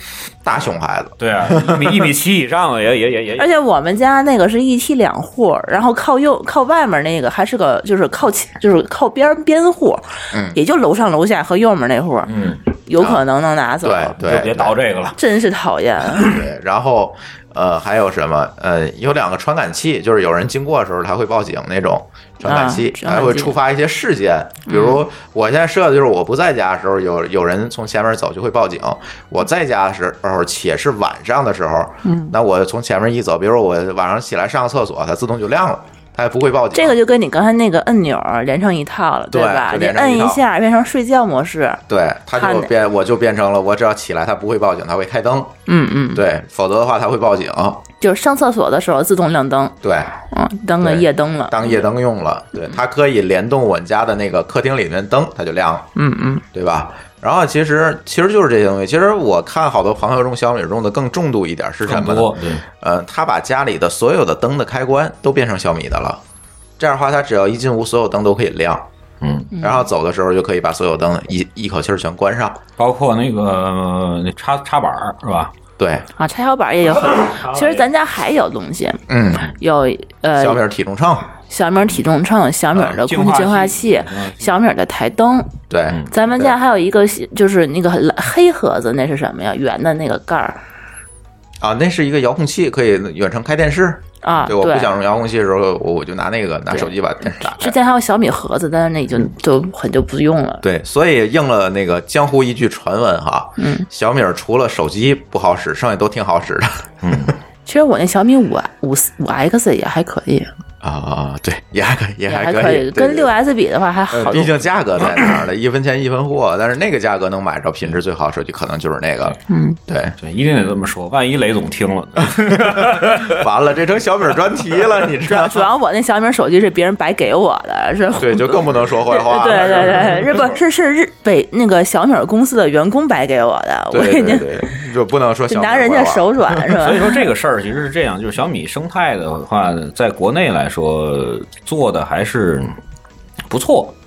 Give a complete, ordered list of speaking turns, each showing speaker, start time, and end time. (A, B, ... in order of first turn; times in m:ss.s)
0:00.4-0:02.1 A
0:01.2-0:03.5 B
0:03.4-0:12.3 C
0:10.3-0:10.6 A
0:12.2-0:12.6 B
0:12.8-0:14.2 C
0:13.8-0:14.8 A
0:14.2-0:15.2 B
0:15.1-0:16.3 C
0:16.2-0:37.0 A
0:22.4-0:23.5 C
0:24.7-0:25.0 C
0:32.0-0:32.3 C
0:36.7-0:41.8 C
0:39.3-0:40.4 A
0:41.9-0:45.5 A
0:42.4-0:42.7 C
0:45.7-0:46.2 C
0:46.1-0:47.8 A
0:48.0-0:49.8 C
0:49.8-0:50.2 A
0:50.3-0:51.8 C
0:50.8-0:55.9 A
0:56.0-0:56.4 C
0:56.5-1:06.2 A
1:01.8-1:02.6 B
1:06.8-1:08.8 A
1:09.2-1:09.5 B
1:09.5-1:09.8 C
1:09.6-1:12.6 A
1:12.8-1:15.5 B
1:15.8-1:16.0 A
1:16.2-1:19.0 C
1:17.1-1:17.9 B
1:19.1-1:19.5 A
1:19.6-1:20.6 C
1:20.4-1:21.3 A
1:21.5-1:25.5 C
1:22.7-1:24.4 B
1:25.7-1:26.5 A
1:26.1-1:30.6 C
1:31.6-1:37.8 A
1:34.2-1:34.9 C
1:36.7-1:40.6 C
1:40.6-1:47.3 A
1:43.6-1:43.9 C
1:47.0-1:47.3 B
1:47.6-1:50.5 C
1:50.8-1:53.3 A
1:52.3-1:54.5 C
1:54.1-1:59.4 A
1:59.5-1:59.8 C
1:59.9-2:00.2 A
2:00.2-2:03.4 B
2:02.7-2:05.6 A
2:05.2-2:14.5 C
2:08.2-2:10.4 A
2:13.9-2:16.8 A
2:15.5-2:17.0 C
2:16.8-2:22.8 B
2:23.5-2:24.0 B